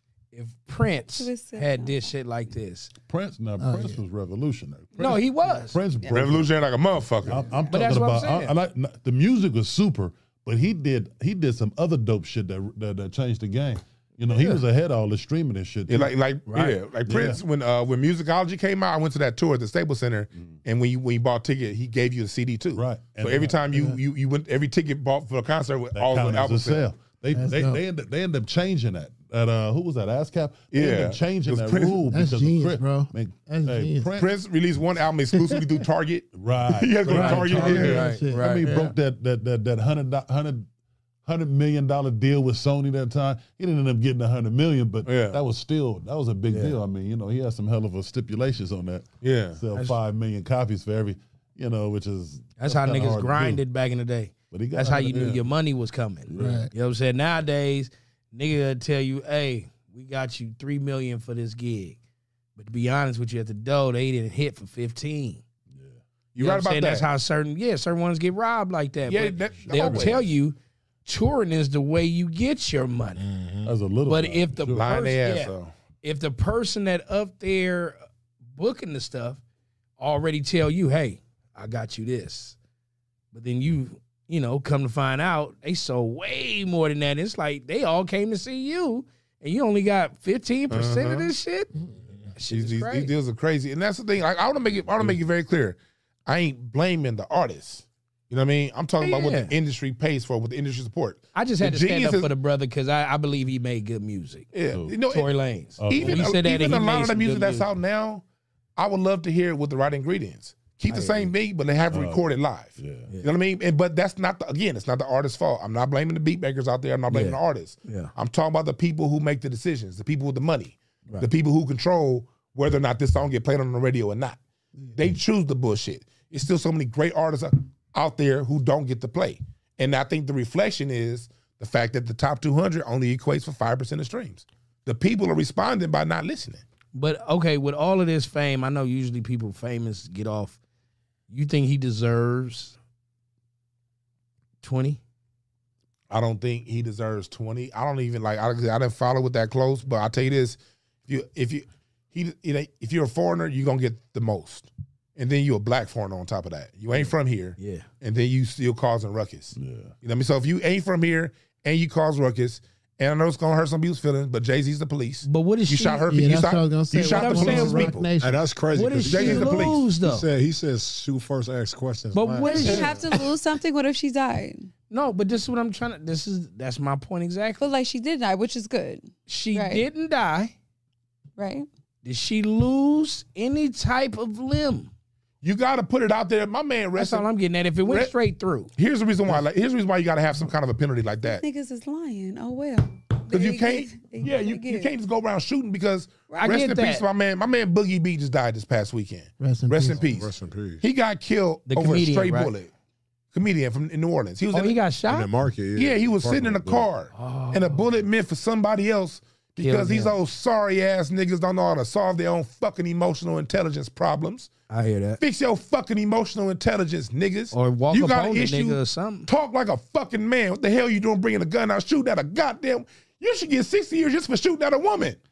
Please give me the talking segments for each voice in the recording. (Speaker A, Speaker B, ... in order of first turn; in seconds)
Speaker A: 0.3-2.9, 5.0-5.8, 7.7-8.6, 16.5-16.8, 37.7-38.7, 52.6-62.0, 62.6-65.4, 66.4-73.2, 74.1-78.0, 78.5-79.4, 80.0-82.5, 83.3-91.7, 92.3-93.1, 99.0-99.5, 101.3-104.5, 105.1-107.7, 110.9-111.3, 117.1-118.1, 136.9-140.6, 141.3-142.8, 144.6-145.0, 157.6-157.9, 165.3-166.1, 167.1-168.0, 168.7-170.3, 172.1-173.0, 174.9-177.6, 179.3-180.5, 182.0-184.9, 187.0-188.7, 196.3-197.0, 201.7-202.5, 204.5-205.3, 207.1-207.8, 209.6-210.2, 214.7-215.2, 217.5-219.3
Speaker B: 1.1-2.1, 172.4-174.7, 177.6-179.8, 181.4-181.7, 191.2-194.9, 196.3-196.6
Speaker C: 3.1-6.5, 7.2-16.1, 17.1-17.4, 22.8-23.8, 25.9-34.3, 36.4-40.7, 41.2-53.6, 54.5-55.4, 56.3-56.7, 69.7-70.3, 73.7-74.9, 104.7-105.0, 105.8-106.4, 111.9-113.1, 159.6-159.9
Speaker D: 3.6-4.0, 27.3-27.8, 32.1-34.1, 35.3-35.6, 37.1-39.0, 56.4-56.7, 166.1-168.4, 199.4-200.1
Speaker E: 6.1-7.6, 15.9-26.9, 30.7-32.0, 34.2-38.1, 45.0-45.4, 49.2-49.6, 66.3-67.1, 69.1-70.2, 74.7-75.7, 90.7-91.3, 92.5-102.3, 104.5-105.3, 105.9-108.2, 108.8-124.4, 124.9-136.6, 146.1-168.1, 169.1-169.8, 185.4-187.3, 187.8-188.1, 188.8-191.4, 193.3-200.3, 200.8-202.7, 203.3-204.8, 205.8-214.5, 215.2-225.2
Speaker F: 73.2-73.7, 168.2-173.1, 200.0-200.8, 205.1-206.9